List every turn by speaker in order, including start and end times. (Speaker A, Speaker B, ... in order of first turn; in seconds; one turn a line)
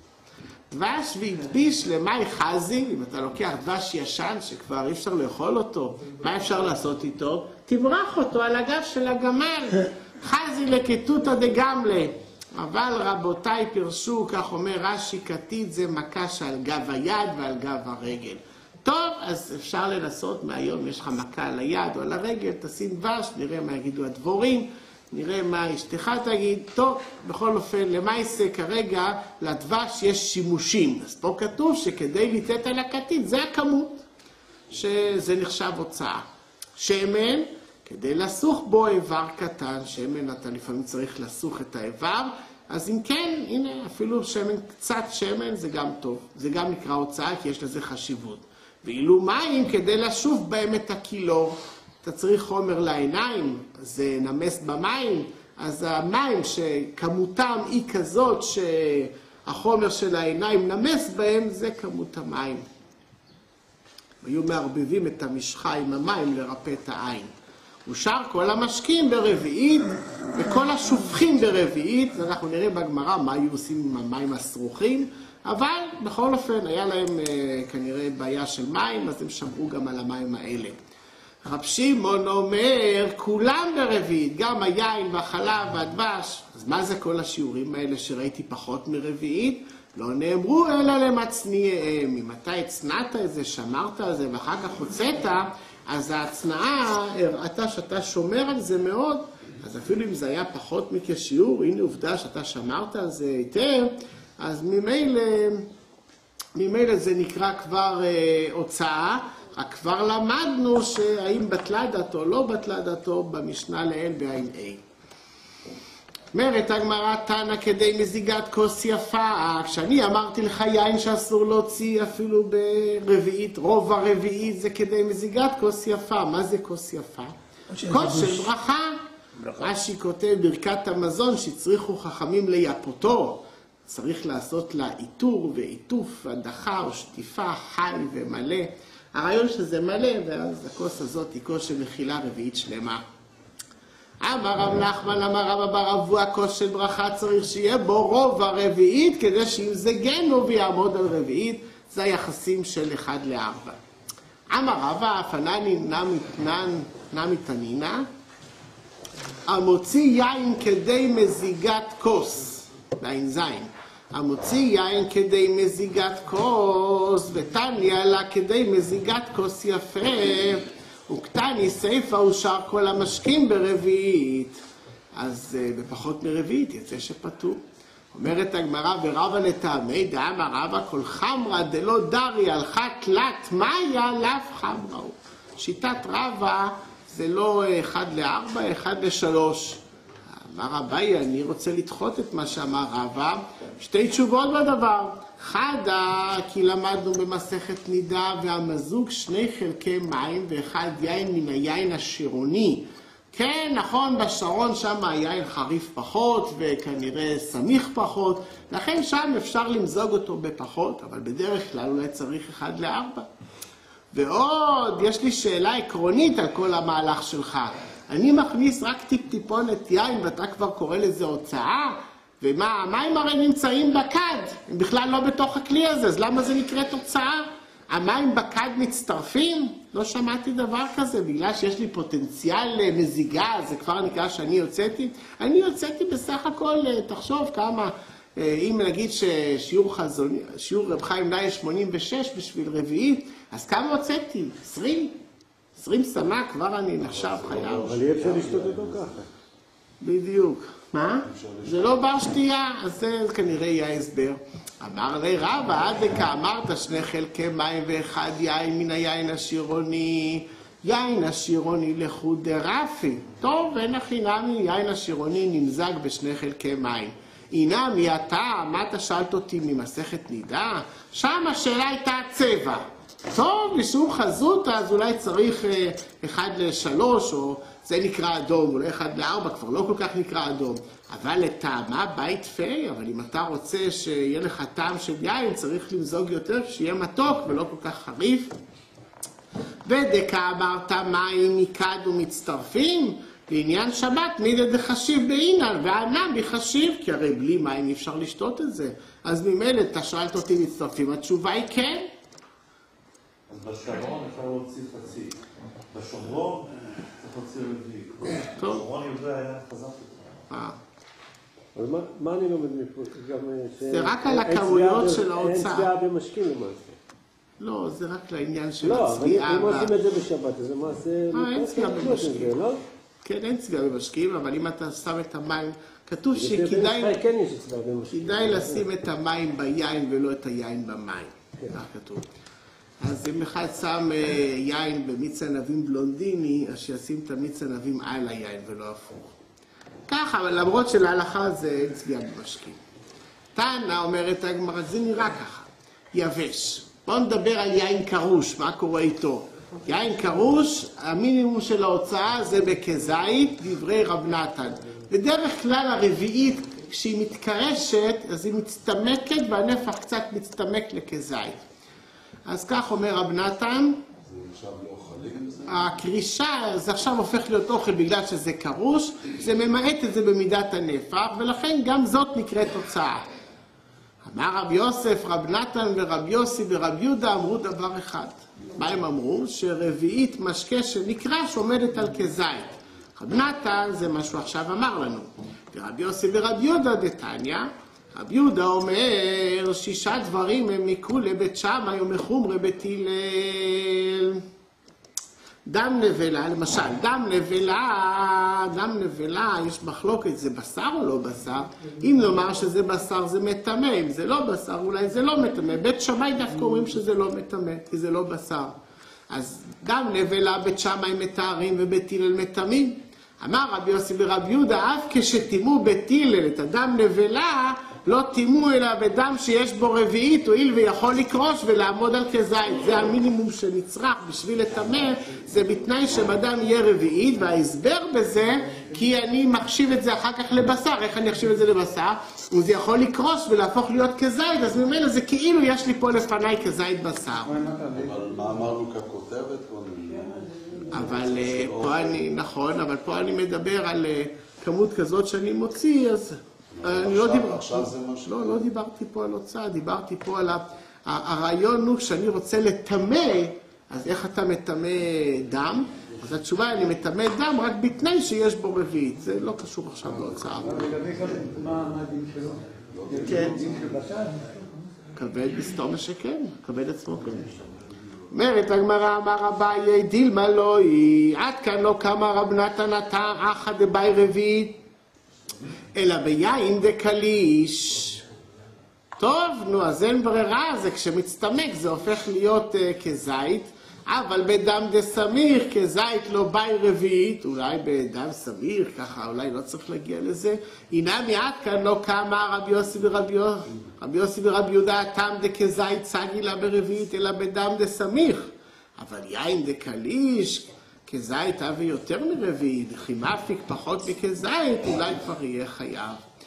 Speaker A: 0.7-34.0
Speaker A: 34.7-36.2
Speaker A: 36.8-62.6
Speaker A: 64.2-67.3
Speaker A: 67.9-80.8
Speaker A: 81.5-105.7
Speaker A: 106.6-114.8
Speaker A: 116.3-127.3
Speaker A: 127.8-129.0
Speaker A: 129.5-143.0
Speaker A: 144.2-153.8
Speaker A: 154.5-158.1
Speaker A: 159.5-174.6
Speaker A: 175.2-177.6
Speaker A: 178.1-189.8
Speaker A: 190.5-213.3
Speaker A: 214.1-245.2
Speaker A: 245.8-248.3
Speaker B: 247.0-249.2
Speaker C: 247.8-249.2
Speaker A: 250.0-288.5
Speaker B: 251.2-252.0
Speaker A: 289.9-302.1
Speaker D: 303.5-305.4
Speaker D: 305.9-310.2
Speaker A: 308.6-308.8
Speaker A: 310.5-310.8
Speaker C: 311.8-317.0
Speaker A: 313.9-315.9
Speaker A: 317.6-319.9
Speaker C: 318.8-322.8
Speaker A: 321.3-322.6
Speaker A: 323.2-327.2
Speaker C: 326.4-328.9
Speaker A: 328.1-332.3
Speaker A: 333.0-339.2
Speaker A: 340.1-342.8
Speaker A: 343.6-361.6
Speaker A: 362.5-364.0
Speaker B: 364.2-365.9
Speaker A: 365.7-373.2
Speaker A: 374.2-394.4
Speaker A: 395.7-408.7
Speaker A: 409.3-437.6
Speaker E: 437.4-438.8
Speaker B: 437.9-442.2
Speaker E: 440.7-441.3
Speaker A: 440.9-460.9
Speaker B: 446.8-448.6
Speaker B: 460.1-461.5
Speaker E: 460.6-464.7
Speaker B: 462.9-463.9
Speaker A: 463.3-463.6
Speaker A: 465.2-467.5
Speaker A: 468.3-474.8
Speaker A: 475.9-478.2
Speaker A: 479.2-506.2